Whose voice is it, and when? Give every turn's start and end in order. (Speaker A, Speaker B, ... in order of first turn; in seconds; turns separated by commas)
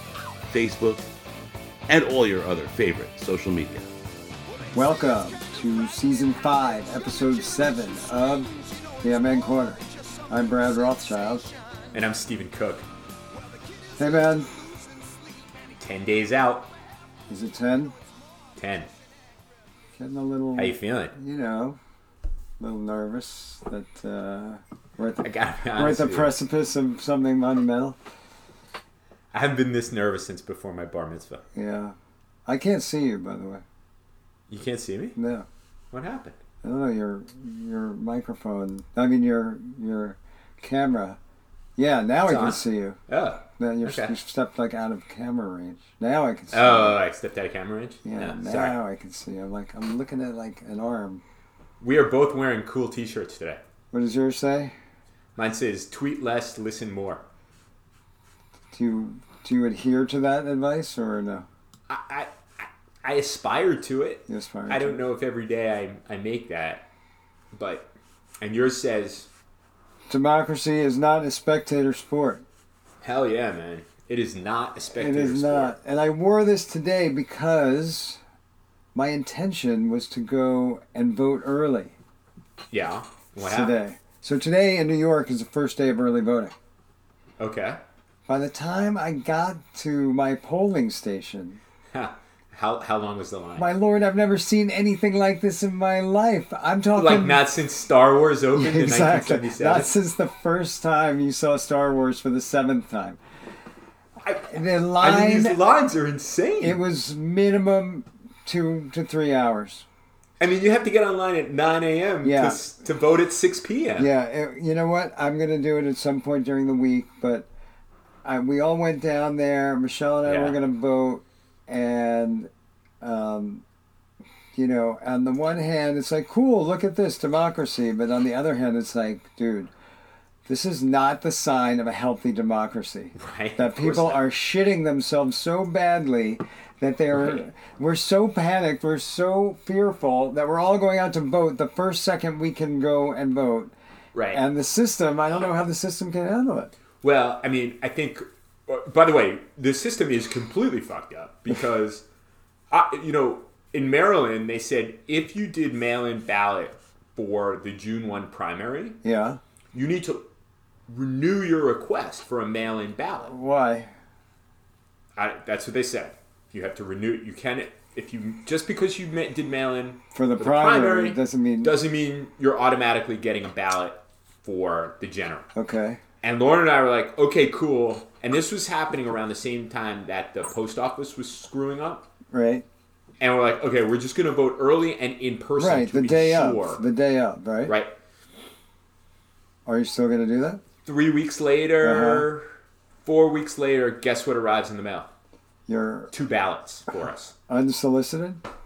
Speaker A: 0.5-1.1, Speaker A: 1.9-3.9, Speaker B: 4.7-11.5, Speaker C: 11.9-12.9, Speaker B: 14.0-14.5, Speaker C: 15.8-16.7, Speaker B: 17.3-17.9, Speaker C: 18.6-18.9, Speaker B: 19.9-21.8, Speaker C: 20.6-21.1, Speaker B: 22.6-28.0, Speaker C: 25.2-26.3, Speaker C: 29.3-31.4, Speaker B: 31.5-33.6, Speaker C: 34.5-35.2, Speaker B: 35.2-35.5, Speaker C: 35.9-36.4, Speaker B: 36.6-41.2, Speaker B: 41.8-43.0, Speaker C: 42.3-44.1, Speaker B: 43.6-47.0, Speaker C: 46.5-48.8, Speaker B: 48.0-51.2, Speaker C: 51.8-53.6, Speaker B: 53.9-54.8, Speaker C: 55.4-57.2, Speaker B: 58.7-61.5, Speaker C: 61.9-66.9, Speaker B: 64.3-65.0, Speaker C: 67.5-67.9, Speaker C: 68.4-69.3, Speaker B: 70.1-72.4, Speaker C: 73.0-75.7, Speaker B: 75.0-78.2, Speaker B: 79.0-82.0, Speaker C: 82.7-83.7, Speaker B: 83.4-86.5, Speaker C: 87.4-87.8, Speaker B: 88.3-91.6, Speaker C: 91.9-93.7, Speaker B: 93.6-97.5, Speaker C: 97.0-99.9, Speaker B: 98.5-103.2, Speaker C: 104.2-106.8, Speaker B: 104.5-105.6, Speaker B: 106.6-109.9, Speaker C: 110.4-114.1, Speaker B: 112.2-112.6, Speaker B: 114.0-117.5, Speaker B: 118.2-122.5, Speaker C: 120.2-120.6, Speaker B: 123.0-123.6, Speaker B: 124.5-129.7, Speaker B: 130.4-143.7, Speaker C: 133.2-134.2, Speaker C: 137.1-137.4, Speaker C: 144.1-144.4, Speaker B: 144.3-146.7, Speaker C: 147.0-152.0, Speaker C: 152.7-159.0, Speaker B: 159.0-159.4, Speaker C: 159.7-160.3, Speaker C: 160.9-163.3, Speaker B: 163.3-163.9, Speaker C: 165.2-175.5, Speaker B: 170.2-171.7, Speaker B: 175.6-176.0, Speaker C: 176.2-182.1, Speaker B: 182.3-182.7, Speaker C: 183.2-186.8, Speaker B: 185.6-187.7, Speaker C: 187.7-187.9, Speaker B: 189.7-190.6, Speaker C: 190.8-192.5, Speaker B: 191.8-192.3, Speaker C: 193.0-195.1, Speaker B: 195.7-196.1, Speaker C: 196.1-197.3, Speaker B: 197.5-198.4